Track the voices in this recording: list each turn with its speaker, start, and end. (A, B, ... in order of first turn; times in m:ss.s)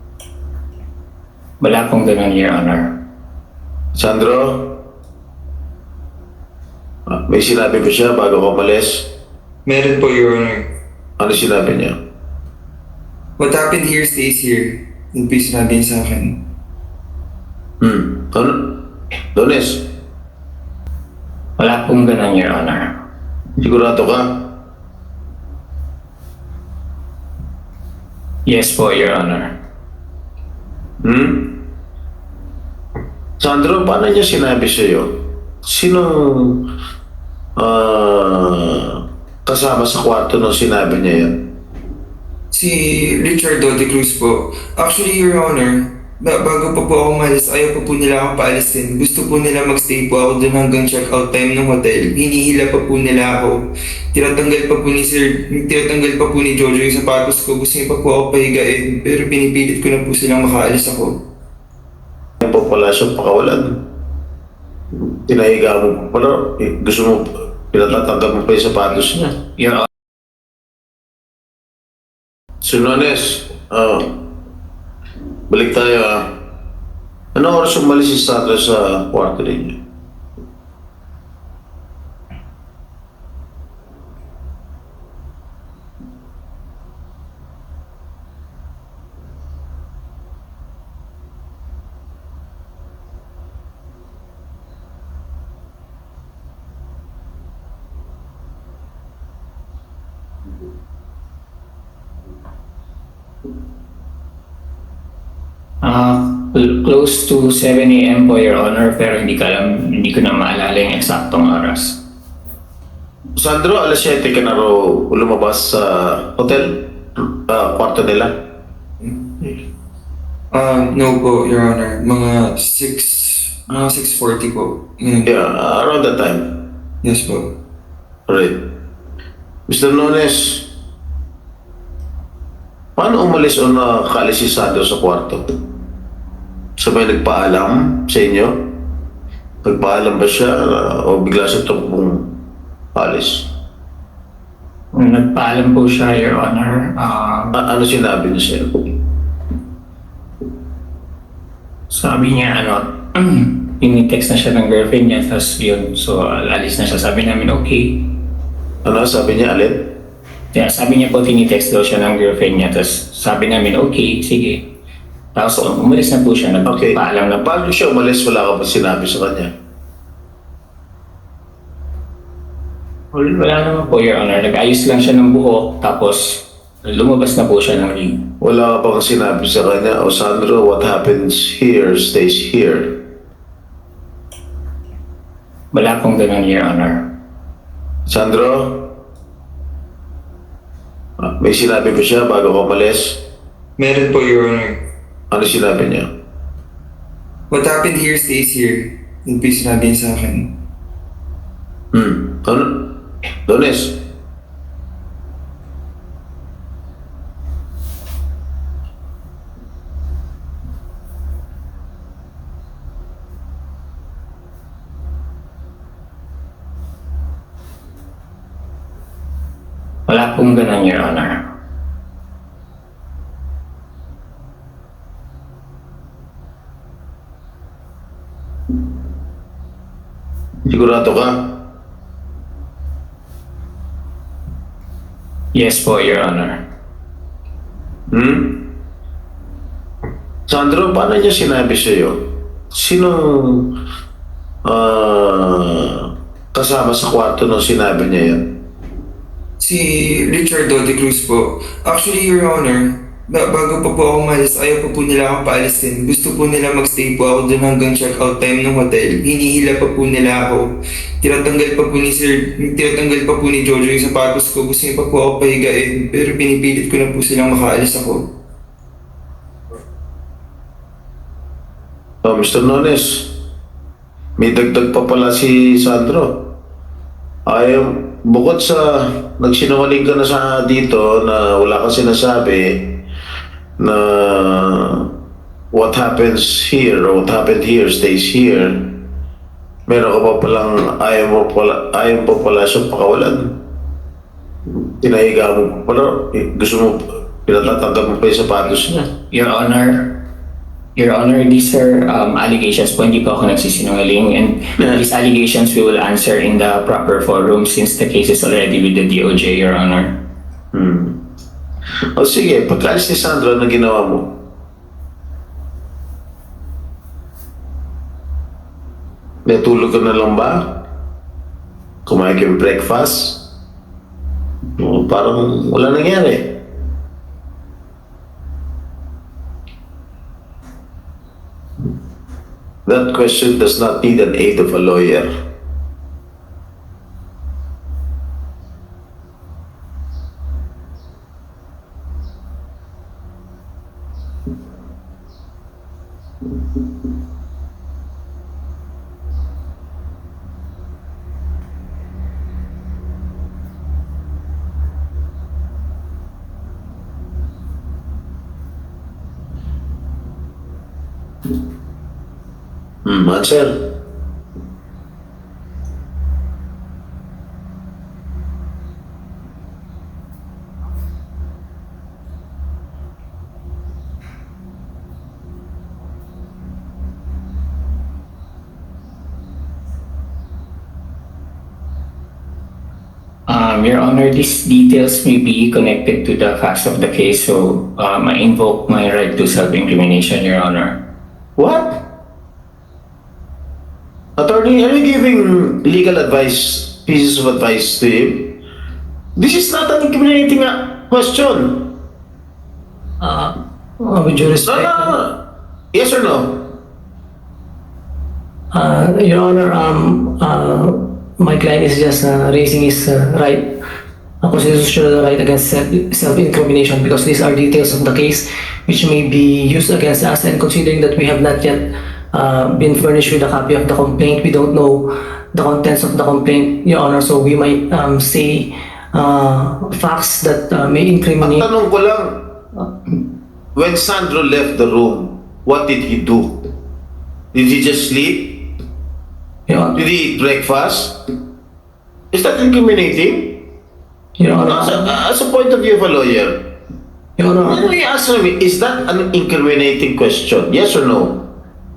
0:01.6-0:02.9 A
0:04.0-0:04.8 B
0:07.1-0:09.1 B
0:09.7-0:10.6 C
0:11.2-0:12.0 B
0:13.4-0:16.4 C
0:17.8-0:18.7 B
0:19.4-0:19.8 B
0:21.7-0:22.8 A
0:23.6-0:24.4 B
0:28.6-0:29.4 A
0:31.0-0:31.5 B
0:33.4-0:35.1 B
0:35.6-0:36.6 B
0:37.6-0:41.4 B
0:42.5-1:01.2 C
1:02.4-1:03.7 B
1:05.1-1:09.3 B
1:09.6-1:09.8 D
1:12.6-1:14.1 B
1:15.5-1:16.2 B
1:17.4-1:19.8 B
1:47.0-1:49.0 A
1:47.5-1:48.0 D
1:50.5-1:51.9 A
1:53.4-1:56.8 B
1:57.5-1:58.3 B
1:59.1-1:59.4 C
2:00.5-2:05.3 C
2:05.2-2:06.5 B
2:07.0-2:07.5 C
2:08.3-2:08.6 B
2:09.7-2:10.6 B
2:13.0-2:15.4 B
2:16.8-2:18.6 B
2:19.6-2:22.3 B
2:23.0-2:23.5 B
2:25.1-2:25.8 A
2:25.5-2:27.5 D
2:27.0-2:27.4 A
2:27.5-2:28.7 B
2:31.9-2:32.3 D
2:32.0-2:32.8 A
2:32.9-2:33.8 D
2:33.8-2:37.9 A
2:38.8-2:39.9 B
2:40.6-2:44.6 A
2:45.4-2:46.7 A
2:46.6-2:49.5 B
2:53.2-2:56.4 A
2:57.0-2:58.1 A
2:58.4-3:03.0 B
3:05.8-3:07.0 A
3:08.1-3:08.9 B
3:11.4-3:13.2 B
3:13.8-3:14.8 C
3:15.3-3:16.1 B
3:17.5-3:20.5 C
3:21.9-3:22.8 B
3:23.5-3:23.9 B
3:40.2-3:41.3 A
3:50.7-3:51.5 B
3:55.6-3:56.6 A
3:58.1-3:58.6 B
4:00.5-4:02.2 B
4:02.7-4:03.7 B
4:04.6-4:08.4 B
4:09.6-4:28.3 C
4:32.2-4:33.3 B
4:34.4-4:36.4 B
4:37.5-4:43.0 B
4:43.8-4:45.1 B
4:45.7-4:48.9 B
4:49.9-4:53.5 B
4:54.7-4:59.1 B
4:59.5-5:00.0 A
5:01.3-5:03.3 A
5:04.1-5:04.6 A
5:04.8-5:05.0 B
5:05.0-5:05.3 D
5:05.4-5:05.7 A
5:05.9-5:06.2 D
5:06.4-5:10.0 A
5:10.7-5:11.2 B
5:12.2-5:14.3 B
5:19.5-5:20.7 B
5:22.1-5:23.4 B
5:24.8-5:26.6 B
5:32.9-5:35.3 B
6:03.0-6:03.7 B
6:23.6-6:26.3 A
6:27.0-6:27.5 A
6:27.8-6:28.3 D
6:28.5-6:28.9 A
6:28.9-6:30.9 D
6:30.2-6:30.5 A
6:31.6-6:32.0 B
6:34.4-6:38.6 B
6:39.4-6:41.9 B
6:43.2-6:45.2 D
6:44.6-6:45.4 B
6:45.9-6:46.6 B
6:48.7-6:53.6 D
6:54.4-7:11.7 D
7:11.4-7:12.3 B
7:13.8-7:16.5 B
7:17.5-7:18.7 B
7:19.7-7:20.0 D
7:20.0-7:21.2 B
7:22.3-7:23.6 B
7:24.4-7:25.2 D
7:24.6-7:26.5 B
7:27.4-7:27.9 D
7:27.6-7:31.5 B